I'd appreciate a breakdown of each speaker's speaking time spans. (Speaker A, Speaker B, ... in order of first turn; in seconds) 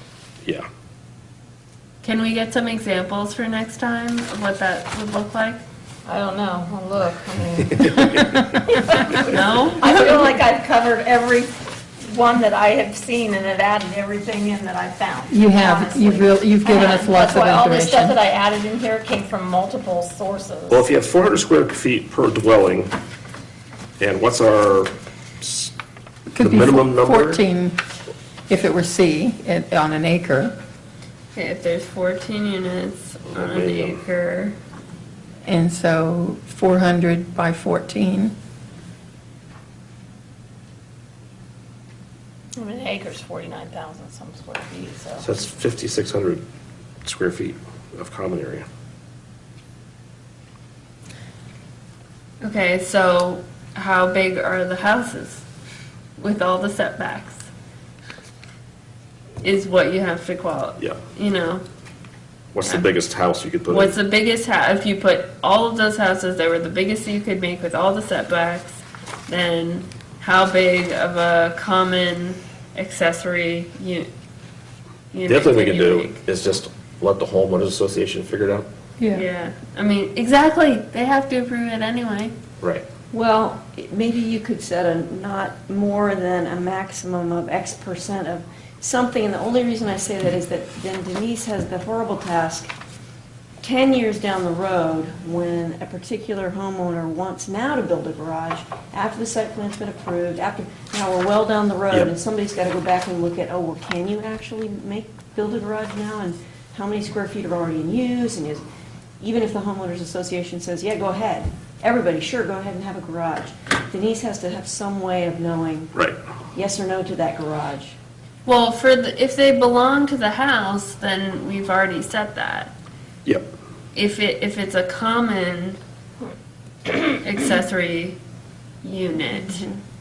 Speaker A: 2.0-5.6, 9.3-9.9, 31.3-34.6, 52.4-55.4, 56.2-57.5, 59.4-61.6, 63.7-74.1, 75.1-76.2, 79.1-82.3, 118.4-122.7, 123.9-125.8, 127.2-128.2, 128.8-129.6
Speaker B: 6.0-20.8, 42.5-45.2
Speaker C: 15.3-18.2, 26.3-27.8, 28.5-30.6, 35.4-38.3
Speaker D: 20.7-22.9, 24.0-25.7, 26.4-27.4, 33.3-34.0, 45.2-46.4, 47.0-48.6, 62.5-64.0, 75.2-78.7, 82.6-82.8, 115.9-116.2
Speaker E: 83.1-92.7, 93.6-108.6, 109.2-115.9, 116.5-118.0, 129.3-129.7